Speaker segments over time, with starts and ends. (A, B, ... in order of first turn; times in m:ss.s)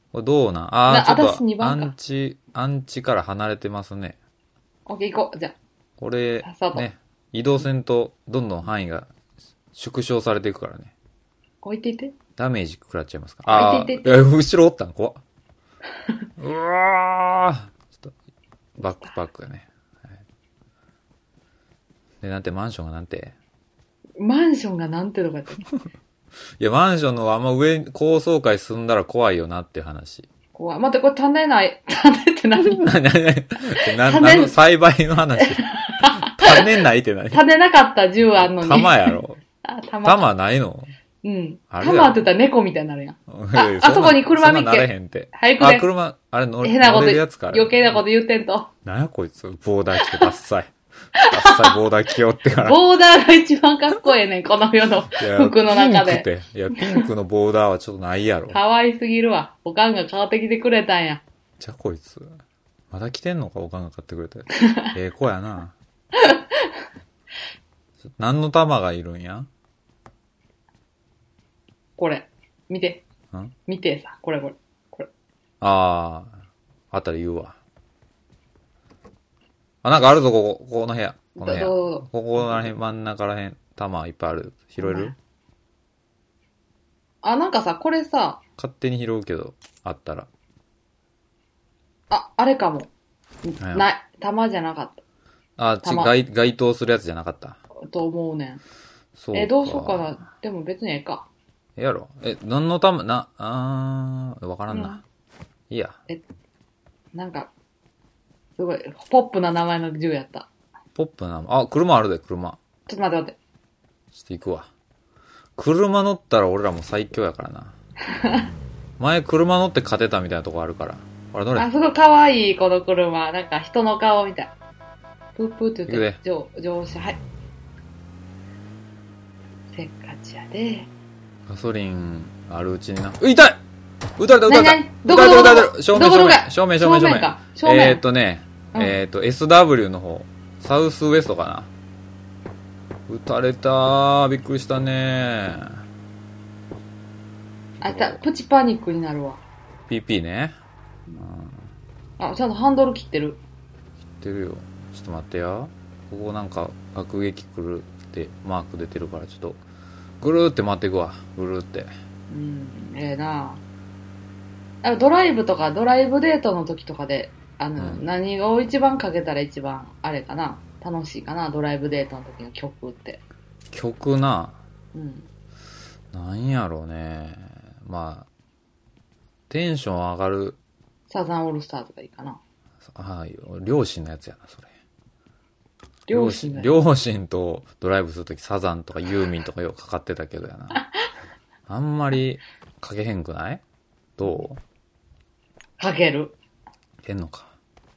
0:00.1-0:04.2 A
0:00.9-0:01.9 B
0:04.9-0:05.6 B
0:06.0-0:09.1 A
0:06.4-0:06.8 B
0:09.8-0:10.9 A
0:11.6-0:12.2 B
0:12.4-0:15.2 A
0:13.5-0:14.2 B
0:16.4-0:18.1 A
0:18.8-0:20.2 A
0:22.2-0:23.4 A
0:24.2-0:25.6 B
0:26.6-0:30.3 A
0:30.6-0:32.9 B
0:32.6-0:37.4 A
0:33.8-0:34.6 B
0:35.4-0:36.6 B
0:37.3-0:40.3 B
0:38.4-0:39.4 A
0:40.0-0:40.9 A
0:41.2-0:45.9 B
0:41.7-0:42.2 A
0:43.3-0:47.9 A
0:46.6-0:48.7 B
0:48.8-0:52.8 A
0:50.0-0:50.3 B
0:51.2-0:51.8 B
0:52.6-0:57.1 B
0:55.2-0:58.6 A
0:58.5-1:01.2 B
1:01.6-1:02.4 A
1:02.9-1:05.8 A
1:06.1-1:06.8 B
1:08.2-1:09.5 A
1:12.0-1:13.0 B
1:13.7-1:15.1 B
1:15.6-1:16.4 A
1:16.9-1:17.6 A
1:19.8-1:25.2 A
1:21.4-1:22.7 B
1:24.8-1:25.1 B
1:27.2-1:28.4 B
1:28.6-1:30.3 A
1:32.1-1:32.9 B
1:33.4-1:35.0 B
1:33.6-1:33.9 A
1:35.6-1:37.6 A
1:35.8-1:36.1 B
1:37.8-1:38.6 B
1:39.2-1:40.1 A
1:39.3-1:41.3 B
1:41.8-1:45.0 A
1:44.7-1:45.0 B
1:45.7-1:46.0 A
1:47.1-1:47.5 B
1:48.6-1:50.5 B
1:51.0-1:52.6 A
1:52.9-1:53.4 B
1:54.1-1:54.7 A
1:55.6-1:57.8 A
1:58.1-1:58.5 B
1:59.0-2:01.7 A
2:01.6-2:04.5 B
2:05.4-2:07.2 B
2:05.9-2:06.2 A
2:09.7-2:10.9 B
2:11.5-2:13.6 A
2:14.2-2:21.7 A
2:14.5-2:18.0 B
2:23.1-2:25.8 A
2:27.8-2:28.2 A
2:27.8-2:29.4 B
2:29.9-2:30.6 A
2:31.2-2:31.7 A
2:32.2-2:33.4 B
2:34.1-2:39.6 A
2:40.2-2:41.9 A
2:42.3-2:43.6 B
2:44.8-2:53.2 B
2:47.8-2:48.0 A
2:53.7-2:54.6 A
2:54.9-2:55.3 B
2:56.1-2:58.3 A
2:59.5-3:00.6 A
3:01.1-3:02.4 B
3:02.9-3:04.7 A
3:06.1-3:06.7 B
3:06.1-3:10.8 A
3:11.7-3:13.6 A
3:14.2-3:14.6 A
3:15.8-3:16.4 B
3:17.0-3:17.5 A